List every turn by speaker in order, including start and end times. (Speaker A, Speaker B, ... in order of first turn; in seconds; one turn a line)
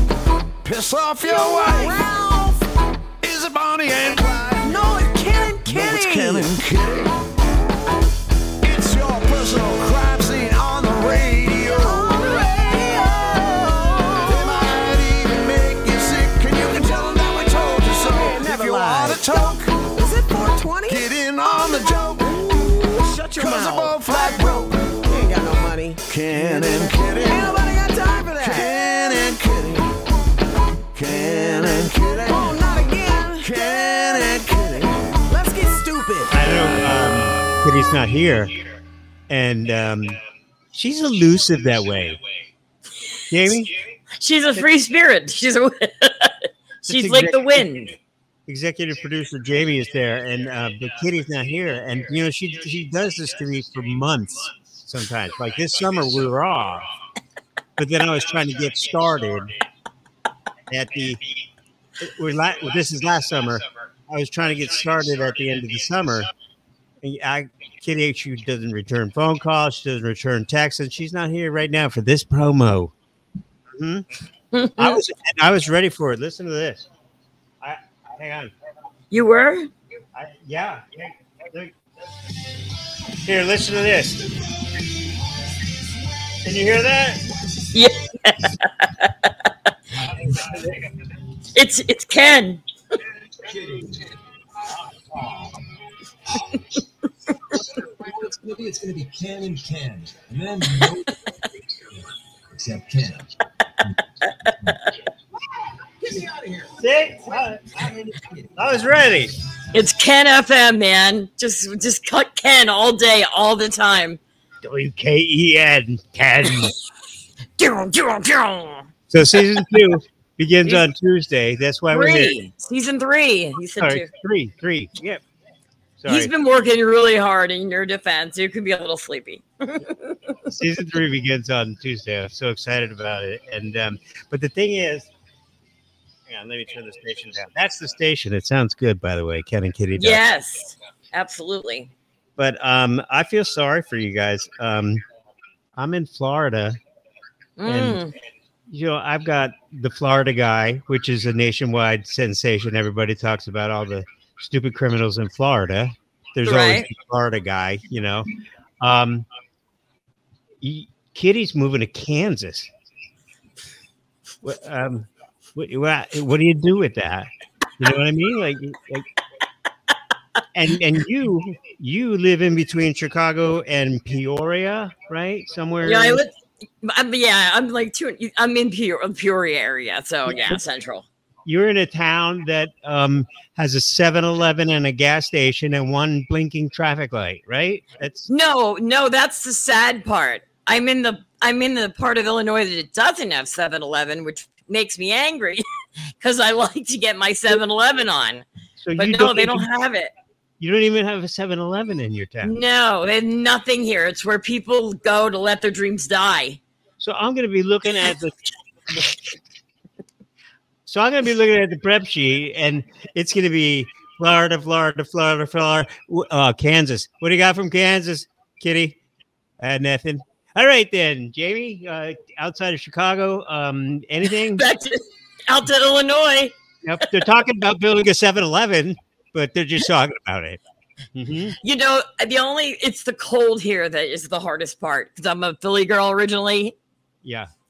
Speaker A: 0.6-2.1
Speaker B: 1.2-2.7
Speaker A: 3.2-4.7
Speaker B: 4.6-6.6
Speaker A: 5.6-7.1
Speaker A: 8.6-12.5
Speaker B: 11.7-14.6
Speaker A: 14.2-19.8
Speaker B: 18.1-21.1
Speaker A: 20.9-24.9
Speaker B: 22.2-28.9
Speaker A: 26.1-27.6
Speaker A: 28.4-29.9
Speaker A: 30.9-32.6
Speaker B: 31.1-36.7
Speaker A: 33.4-35.2
Speaker C: 36.3-38.5
Speaker C: 39.3-40.2
Speaker C: 40.7-42.2
Speaker C: 43.3-43.7
Speaker D: 44.2-48.0
Speaker C: 46.9-47.7
Speaker C: 48.5-56.9
Speaker C: 57.8-59.5
Speaker C: 60.7-61.2
Speaker C: 62.0-66.3
Speaker C: 67.0-72.9
Speaker C: 73.8-74.0
Speaker D: 74.5-75.0
Speaker C: 74.8-76.9
Speaker C: 77.6-78.5
Speaker D: 79.1-79.7
Speaker C: 80.2-81.7
Speaker C: 83.2-84.3
Speaker C: 86.4-87.2
Speaker D: 87.7-89.3
Speaker C: 90.3-90.7
Speaker D: 91.5-92.6
Speaker E: 93.6-93.9
Speaker E: 95.1-95.5
Speaker E: 98.0-101.1
Speaker E: 102.5-103.2
Speaker E: 106.1-106.7
Speaker C: 106.8-108.0
Speaker E: 108.1-108.5
Speaker C: 108.5-109.3
Speaker D: 109.7-114.2
Speaker C: 114.6-116.7
Speaker D: 117.6-118.9
Speaker C: 119.1-122.3
Speaker D: 121.9-124.1
Speaker C: 123.8-125.2
Speaker C: 126.0-126.3
Speaker D: 126.1-130.2
Speaker C: 130.5-135.1
Speaker C: 136.3-140.2
Speaker D: 139.9-141.9
Speaker C: 142.4-145.0
Speaker C: 145.8-146.8
Speaker D: 147.6-148.1
Speaker C: 147.7-148.0
Speaker C: 148.7-158.3
Speaker D: 156.4-156.9
Speaker C: 158.8-159.2
Speaker C: 160.6-162.7
Speaker C: 164.4-169.1
Speaker C: 170.5-176.2
Speaker D: 175.8-181.1
Speaker C: 180.3-180.6
Speaker C: 181.4-188.3
Speaker D: 188.3-195.7
Speaker D: 196.2-200.1
Speaker C: 198.8-199.7
Speaker C: 200.6-202.6
Speaker D: 202.4-206.6
Speaker C: 207.0-208.3
Speaker C: 208.9-209.2
Speaker C: 210.9-219.0
Speaker C: 219.6-224.7
Speaker D: 224.3-227.2
Speaker C: 226.8-230.6
Speaker C: 231.2-231.6
Speaker D: 231.6-236.8
Speaker C: 237.2-237.5